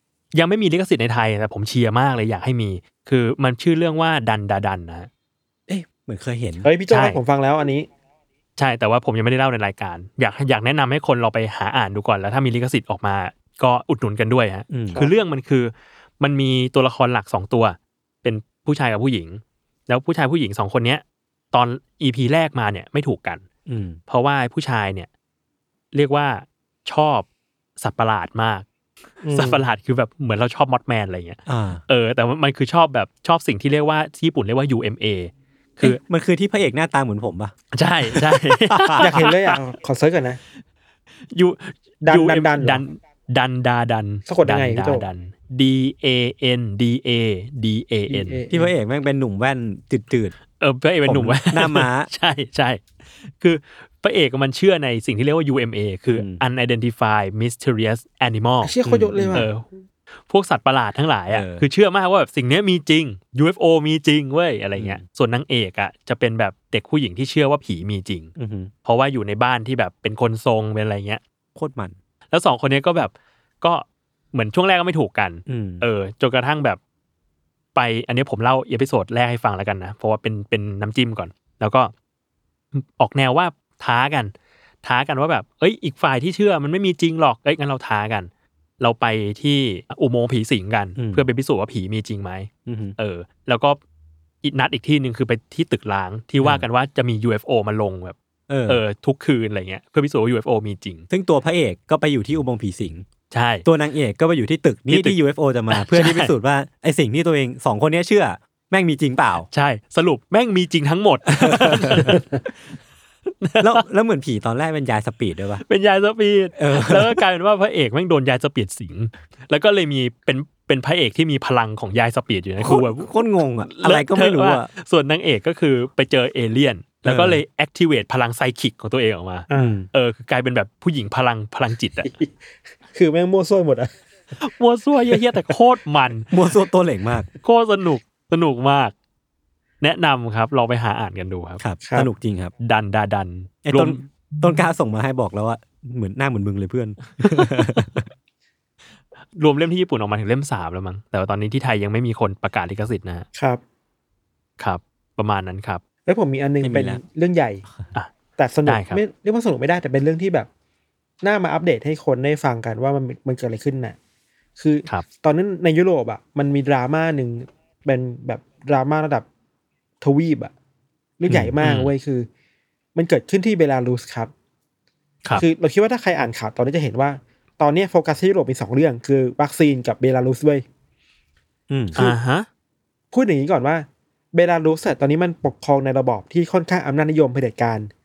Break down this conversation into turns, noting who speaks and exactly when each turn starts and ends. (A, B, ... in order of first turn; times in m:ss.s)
0:00.3-0:05.1 A
0:05.7-0:06.7 B
0:06.6-0:07.9 C
0:06.9-0:07.2 A
0:08.6-0:23.4 A
0:14.7-0:15.0 B
0:23.7-0:24.0 B
0:24.1-0:25.1 A
0:25.9-0:27.3 A
0:27.8-0:28.7 A
0:29.2-0:29.7 C
0:29.3-0:36.0 A
0:31.5-0:31.8 B
0:35.8-0:37.6 B
0:37.7-0:39.6 A
0:38.1-0:39.1 B
0:39.0-0:40.4 C
0:41.3-0:48.4 A
0:42.0-0:42.8 C
0:44.3-0:45.0 C
0:48.1-0:48.7 C
0:48.5-0:50.3 B
0:50.6-0:58.8 A
0:51.0-0:52.1 B
0:58.6-0:59.5 C
0:58.8-0:59.5 B
0:59.3-0:59.7 A
1:00.3-1:08.3 A
1:01.3-1:01.7 B
1:08.4-1:08.7 B
1:08.8-1:11.2 A
1:11.6-1:12.0 B
1:12.3-1:16.8 A
1:15.5-1:15.9 B
1:17.8-1:21.9 A
1:22.7-1:24.3 A
1:24.8-1:33.8 A
1:31.0-1:31.2 B
1:32.7-1:33.0 B
1:34.4-1:38.2 A
1:38.5-1:38.8 B
1:38.7-1:41.0 A
1:41.1-1:43.1 B
1:43.3-1:43.7 A
1:43.6-1:49.5 B
1:44.9-1:45.2 A
1:45.7-1:46.3 A
1:49.5-1:52.4 A
1:51.3-1:52.2 B
1:53.3-1:53.8 A
1:53.6-1:55.6 B
1:55.6-2:12.1 A
1:56.6-1:57.2 B
2:02.6-2:04.7 B
2:07.0-2:07.4 B
2:09.5-2:09.8 C
2:09.5-2:09.9 B
2:12.9-2:13.9 C
2:14.4-2:16.3 A
2:16.3-2:17.3 B
2:17.4-2:18.9 A
2:19.8-2:21.6 A
2:21.6-2:22.5 B
2:22.6-2:24.1 A
2:23.6-2:28.1 B
2:27.1-2:27.7 A
2:29.4-2:33.3 A
2:33.4-2:33.6 C
2:34.6-2:35.8 A
2:36.1-2:37.6 C
2:36.6-2:37.0 B
2:38.4-2:40.5 C
2:38.7-2:39.0 A
2:41.2-2:44.0 C
2:44.6-2:49.3 C
2:50.0-2:50.5 C
2:51.2-2:52.3 C
2:51.6-2:51.9 A
2:53.0-2:54.3 C
2:55.4-3:00.6 C
3:01.7-3:02.0 B
3:02.0-3:02.5 A
3:03.1-3:07.9 C